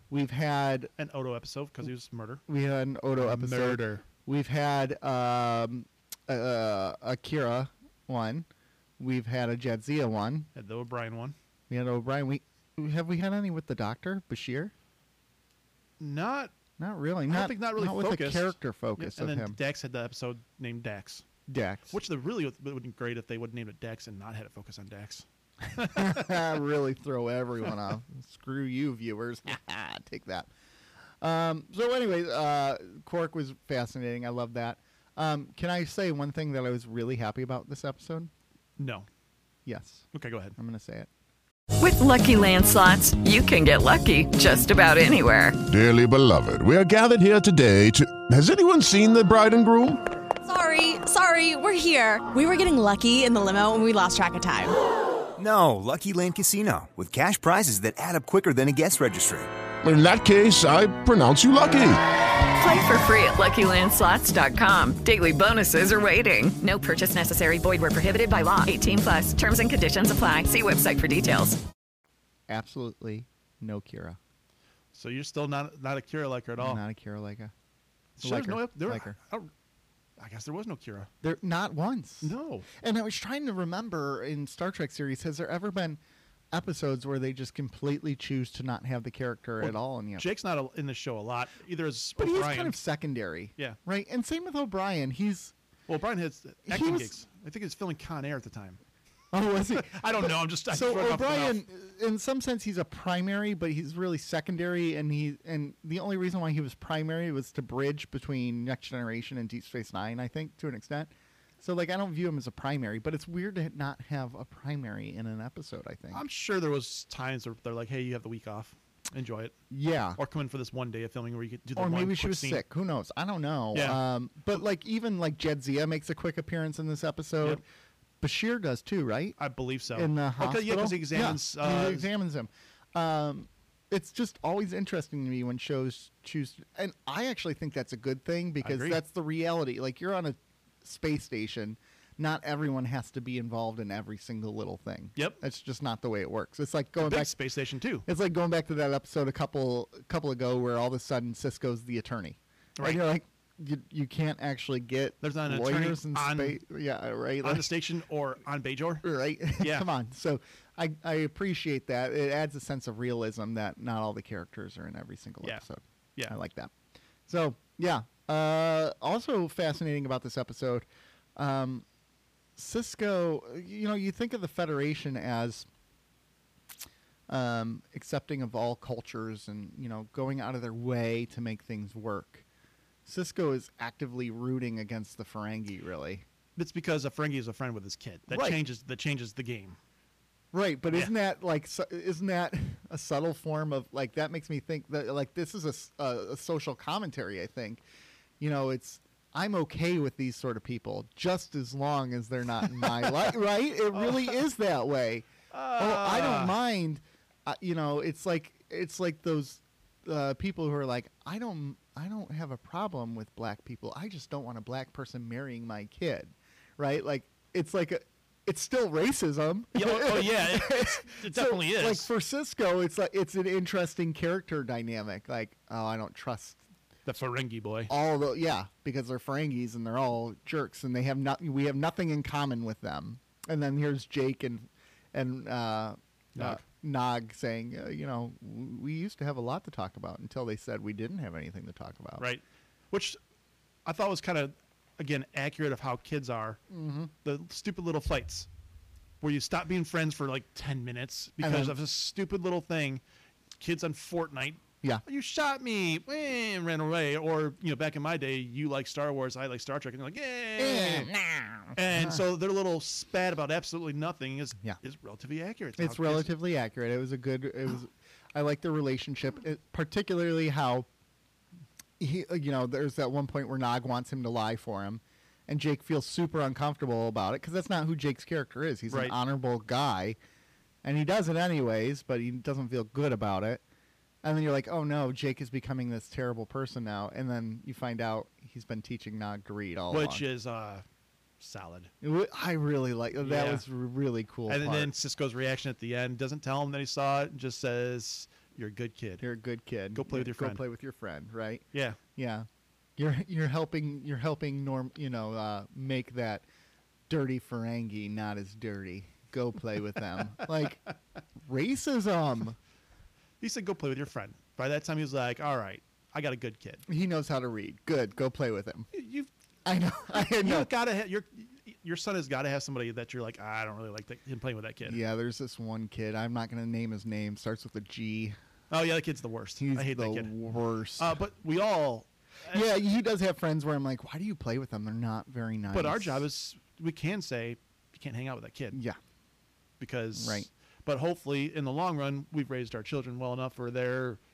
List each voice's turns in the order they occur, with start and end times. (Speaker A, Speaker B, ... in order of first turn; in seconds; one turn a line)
Speaker A: 0.1-0.9
Speaker B: 1.0-2.4
Speaker A: 2.5-8.5
Speaker B: 3.2-4.0
Speaker A: 9.0-10.5
Speaker B: 10.5-11.3
Speaker A: 11.7-14.7
Speaker B: 16.0-16.5
Speaker A: 16.8-19.6
Speaker B: 17.3-21.2
Speaker A: 21.5-21.9
Speaker B: 21.9-26.4
Speaker A: 25.8-30.5
Speaker A: 31.2-38.3
Speaker B: 38.8-39.1
Speaker A: 39.6-40.0
Speaker B: 40.1-40.5
Speaker A: 40.6-41.1
Speaker C: 41.8-45.6
Speaker D: 45.7-50.0
Speaker E: 50.4-54.8
Speaker F: 55.4-59.5
Speaker D: 59.8-62.0
Speaker C: 62.5-71.6
Speaker A: 72.5-74.2
Speaker B: 74.9-76.8
Speaker A: 76.6-77.5
Speaker B: 78.2-79.5
Speaker A: 78.2-79.2
Speaker B: 80.2-81.1
Speaker A: 81.2-86.0
Speaker B: 82.2-82.7
Speaker A: 86.5-90.3
Speaker B: 89.6-92.8
Speaker A: 92.2-95.5
Speaker B: 95.9-98.8
Speaker A: 96.7-97.1
Speaker A: 99.3-116.2
Speaker B: 99.8-101.6
Speaker B: 116.1-119.5
Speaker A: 119.7-120.2
Speaker B: 120.2-122.6
Speaker A: 121.8-127.6
Speaker B: 123.7-124.0
Speaker A: 128.2-129.4
Speaker B: 129.4-132.1
Speaker A: 129.9-147.3
Speaker B: 138.6-139.0
Speaker B: 147.0-148.1
Speaker A: 148.1-157.7
Speaker B: 155.2-156.6
Speaker B: 157.4-159.9
Speaker A: 159.0-166.7
Speaker A: 167.3-171.8
Speaker A: 172.6-175.7
Speaker A: 177.3-182.4
Speaker A: 183.1-186.2
Speaker B: 186.6-189.8
Speaker A: 188.3-188.6
Speaker A: 190.5-197.8
Speaker A: 198.4-226.6
Speaker B: 203.9-204.4
Speaker B: 205.5-206.5
Speaker B: 219.7-222.1
Speaker B: 227.1-227.9
Speaker A: 227.9-242.2
Speaker B: 236.3-236.6
Speaker B: 242.2-243.2
Speaker B: 243.8-246.6
Speaker A: 246.7-247.1
Speaker B: 247.2-248.5
Speaker B: 249.2-253.0
Speaker A: 251.4-251.8
Speaker B: 253.6-261.1
Speaker A: 260.6-262.2
Speaker B: 261.7-266.3
Speaker A: 265.8-270.9
Speaker A: 272.0-280.2
Speaker B: 278.9-279.1
Speaker A: 280.8-283.6
Speaker A: 284.2-290.2
Speaker B: 289.9-290.8
Speaker B: 291.4-291.9
Speaker A: 292.0-294.9
Speaker B: 293.2-293.6
Speaker B: 294.5-299.2
Speaker A: 299.2-301.6
Speaker B: 299.9-300.6
Speaker B: 301.7-302.0
Speaker A: 302.1-306.4
Speaker A: 307.1-310.8
Speaker A: 311.4-312.6
Speaker B: 313.4-316.8
Speaker A: 316.9-318.9
Speaker B: 318.9-319.3
Speaker A: 319.6-320.7
Speaker B: 320.2-325.0
Speaker A: 324.8-328.4
Speaker B: 328.7-330.3
Speaker A: 329.6-331.1
Speaker B: 331.0-332.7
Speaker A: 332.5-336.2
Speaker B: 335.7-338.8
Speaker A: 338.7-339.0
Speaker B: 339.8-344.2
Speaker A: 340.1-340.5